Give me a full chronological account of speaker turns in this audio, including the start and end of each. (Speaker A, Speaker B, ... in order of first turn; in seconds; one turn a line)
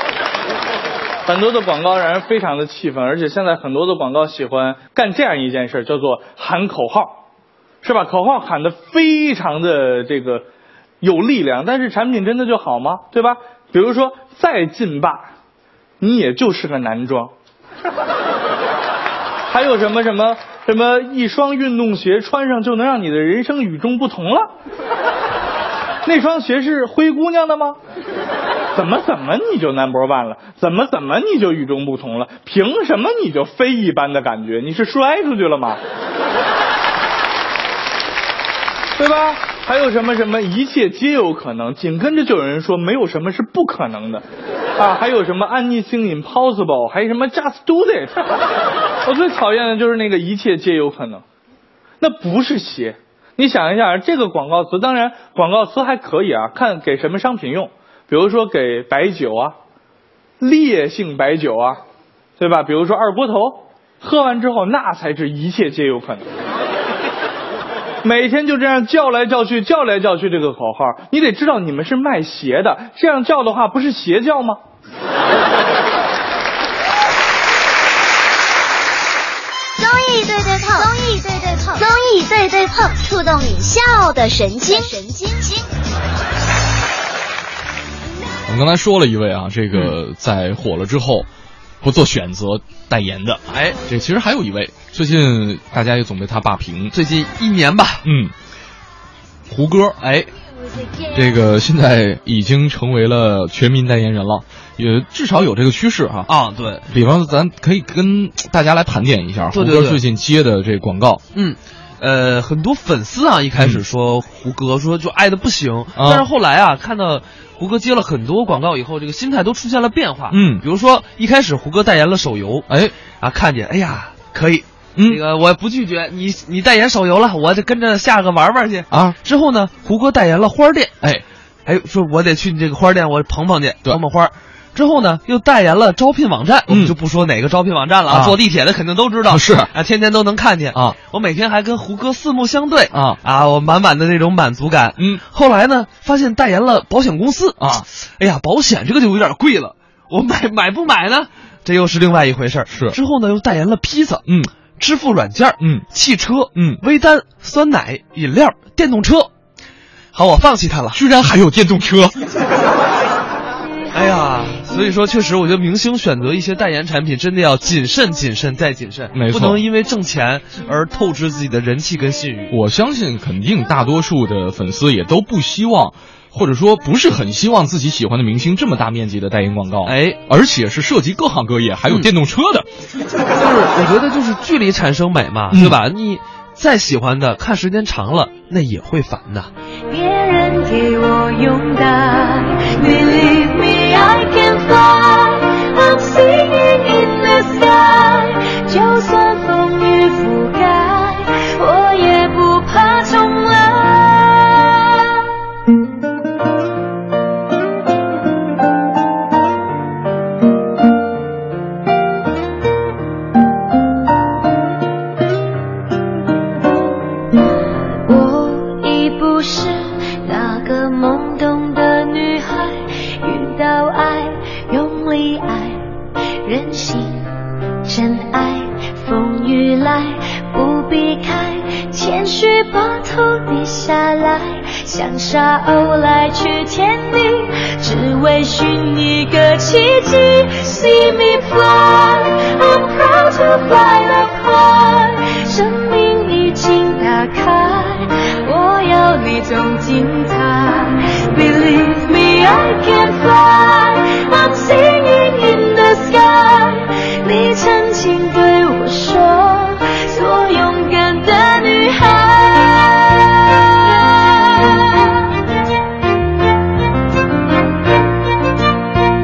Speaker A: 1.2-7.2
Speaker A: 7.8-10.5
Speaker A: 11.0-15.3
Speaker A: 16.0-17.3
Speaker A: 19.5-24.5
Speaker A: 26.0-27.8
Speaker A: 28.7-35.8
Speaker A: 39.0-44.2
Speaker A: 44.8-48.4
Speaker A: 49.0-51.2
Speaker A: 52.0-59.5
Speaker A: 60.4-61.8
Speaker A: 62.4-66.3
Speaker A: 68.0-74.6
Speaker B: 79.8-85.7
Speaker C: 88.5-91.3
Speaker C: 91.8-96.9
Speaker D: 93.5-93.8
Speaker D: 96.9-98.0
Speaker C: 98.0-98.3
Speaker C: 99.5-100.0
Speaker D: 100.0-100.3
Speaker C: 101.1-106.3
Speaker D: 106.3-106.9
Speaker C: 106.9-111.2
Speaker D: 109.5-110.0
Speaker D: 111.3-131.0
Speaker C: 116.0-116.3
Speaker C: 120.3-120.6
Speaker C: 122.7-122.9
Speaker C: 125.0-125.2
Speaker C: 128.9-129.2
Speaker D: 131.7-159.3
Speaker C: 136.7-136.9
Speaker C: 138.1-138.4
Speaker C: 139.3-139.7
Speaker C: 142.9-143.2
Speaker C: 147.6-147.8
Speaker C: 152.7-152.9
Speaker C: 155.6-155.8
Speaker C: 156.5-156.8
Speaker D: 160.1-161.0
Speaker C: 160.9-162.2
Speaker D: 163.9-172.5
Speaker C: 169.1-169.6
Speaker C: 172.5-182.7
Speaker D: 179.8-180.2
Speaker D: 183.3-189.5
Speaker C: 185.5-185.8
Speaker E: 189.9-205.3
Speaker E: 217.3-225.9
Speaker E: 226.4-265.4